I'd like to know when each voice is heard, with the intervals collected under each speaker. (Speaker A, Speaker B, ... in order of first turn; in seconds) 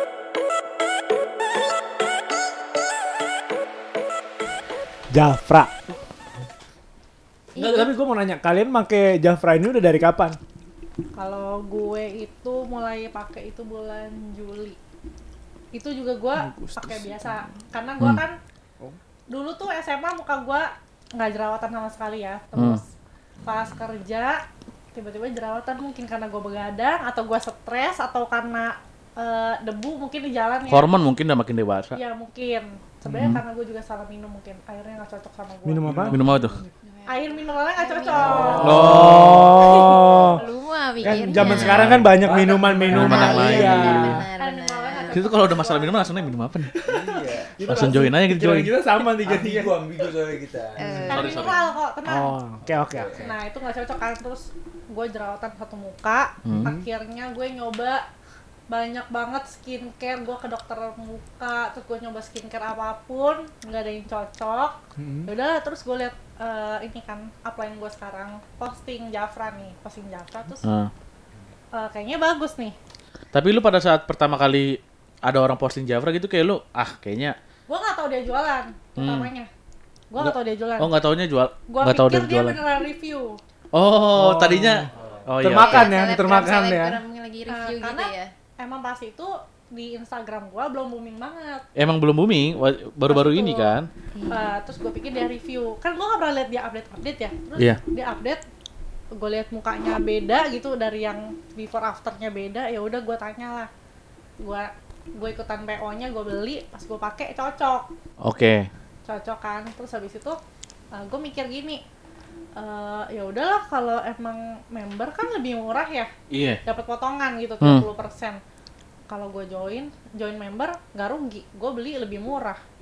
Speaker A: 5.1-5.7, 7.5-10.4, 33.0-33.4, 35.6-36.2, 38.6-40.4, 41.0-44.2, 46.7-50.1, 52.1-53.2, 65.0-65.3, 84.1-84.9, 85.4-87.0
Speaker B: 7.5-7.9, 36.8-41.9, 42.9-45.3, 50.8-51.6, 85.6-88.3, 94.1-94.5
Speaker C: 11.2-14.8, 15.7-18.4, 19.3-22.9, 23.4-24.4, 24.9-30.9, 31.9-36.2, 37.0-38.7, 44.3-46.3, 51.1-52.4, 53.1-58.0, 58.7-70.6, 71.7-72.8, 77.7-79.5, 80.1-81.0, 81.7-83.4, 87.5-91.6, 93.0-98.4, 99.1-103.7, 104.4-107.9, 109.0-110.4, 110.9-111.8, 112.5-116.1, 116.6-118.4, 119.1-122.6
Speaker D: 16.7-17.0, 22.5-22.8, 30.7-32.0, 36.1-36.6, 38.6-39.6, 41.3-42.2, 42.9-44.2, 45.1-46.7, 47.7-48.7, 51.1-51.6, 56.4-56.7, 70.6-70.9, 73.3-77.3, 79.0-79.3, 80.8-82.6, 83.7-85.9, 91.8-93.9, 108.2-108.7, 116.3-116.6
Speaker E: 38.1-39.1, 42.2-44.1, 46.9-47.5, 49.2-51.0, 52.6-53.3